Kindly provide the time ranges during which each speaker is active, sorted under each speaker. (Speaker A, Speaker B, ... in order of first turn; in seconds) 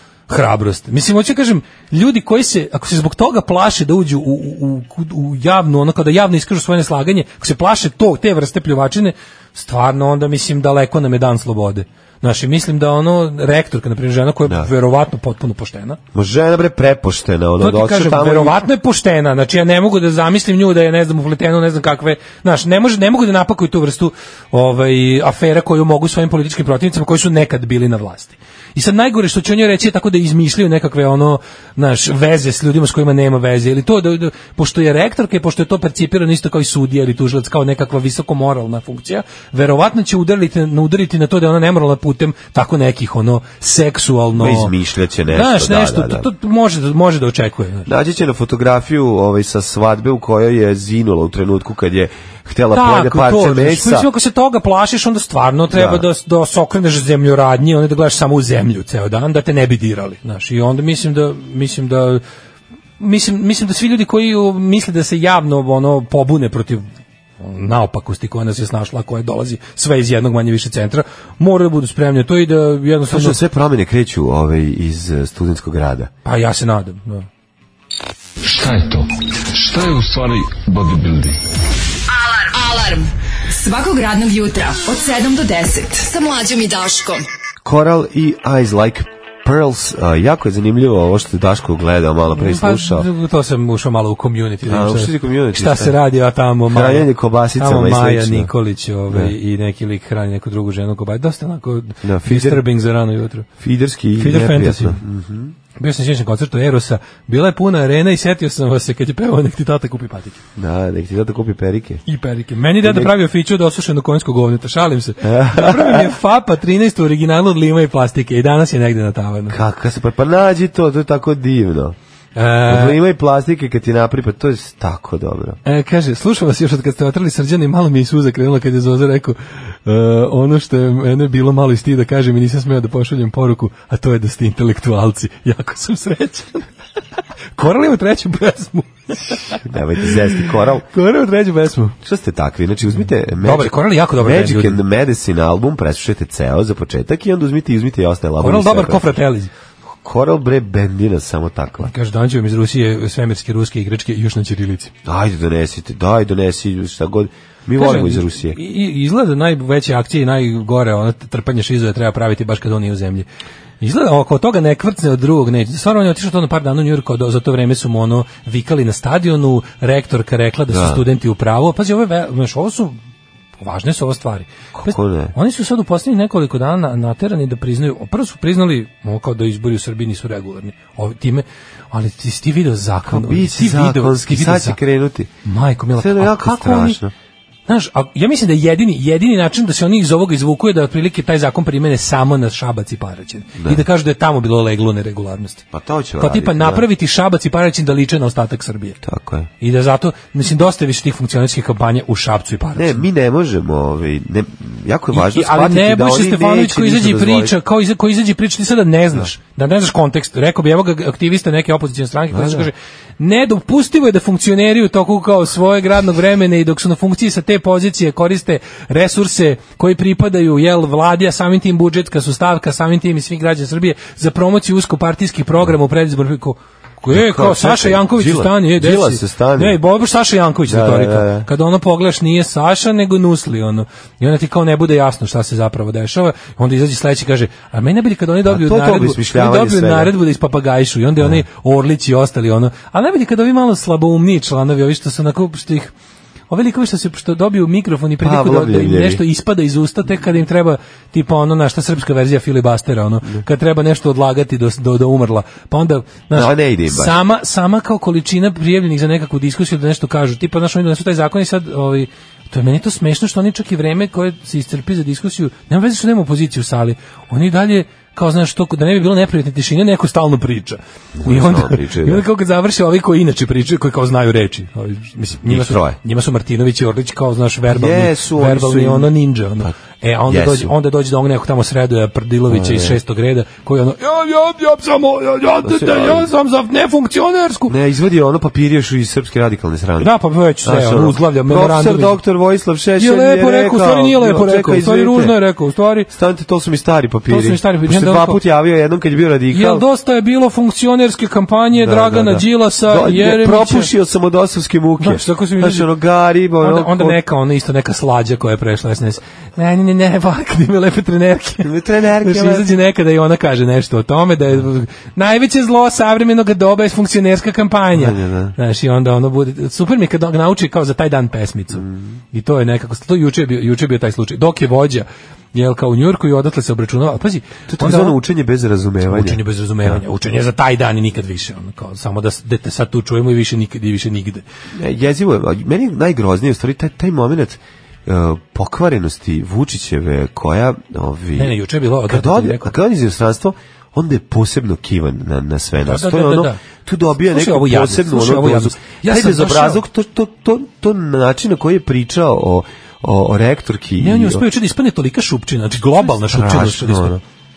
Speaker A: 0.3-16.0, 17.6-44.7, 45.3-47.9, 52.7-62.2, 63.0-66.9, 67.4-73.4, 76.2-77.3, 92.3-103.5, 104.2-105.0, 105.8-110.4, 112.1-119.6, 122.4-123.0, 125.7-136.7, 137.6-140.1, 140.9-142.0, 143.4-144.8, 148.4-149.5, 151.8-154.9, 157.8-163.3, 163.8-173.0, 173.6-184.8, 185.4-187.0, 187.7-195.6, 196.2-199.0, 199.6-203.1, 205.1-245.9, 246.5-287.7, 290.0-292.2, 293.0-296.1, 297.3-298.4, 299.5-303.9, 305.0-305.9, 306.6-311.7, 312.2-328.2, 329.0-334.4, 341.4-342.8, 345.9-346.6, 347.3-349.8, 354.0-357.2
Speaker B: 16.1-18.6, 44.3-46.3, 47.9-54.1, 55.7-56.0, 73.1-76.1, 87.6-93.1, 94.7-96.0, 96.7-98.5, 102.0-102.6, 103.6-105.5, 110.6-112.0, 112.8-113.1, 115.2-116.1, 119.5-122.0, 122.7-125.6, 139.7-140.8, 142.0-149.2, 150.0-151.9, 155.1-158.6, 170.7-171.0, 174.7-175.3, 183.1-185.3, 186.0-187.1, 193.6-193.8, 195.7-196.8, 199.0-199.5, 202.8-207.6, 212.3-212.7, 227.1-229.8, 230.7-231.5, 238.5-240.1, 248.2-249.2, 256.3-257.2, 271.2-272.2, 275.4-276.0, 277.7-279.7, 280.3-280.7, 282.5-283.0, 285.6-286.3, 287.7-290.1, 290.6-295.4, 296.1-299.9, 301.7-307.2, 311.6-312.7, 317.9-318.6, 321.7-322.2, 327.7-330.0, 334.8-354.4, 356.2-357.2
Speaker C: 78.5-81.4
Speaker D: 82.1-87.2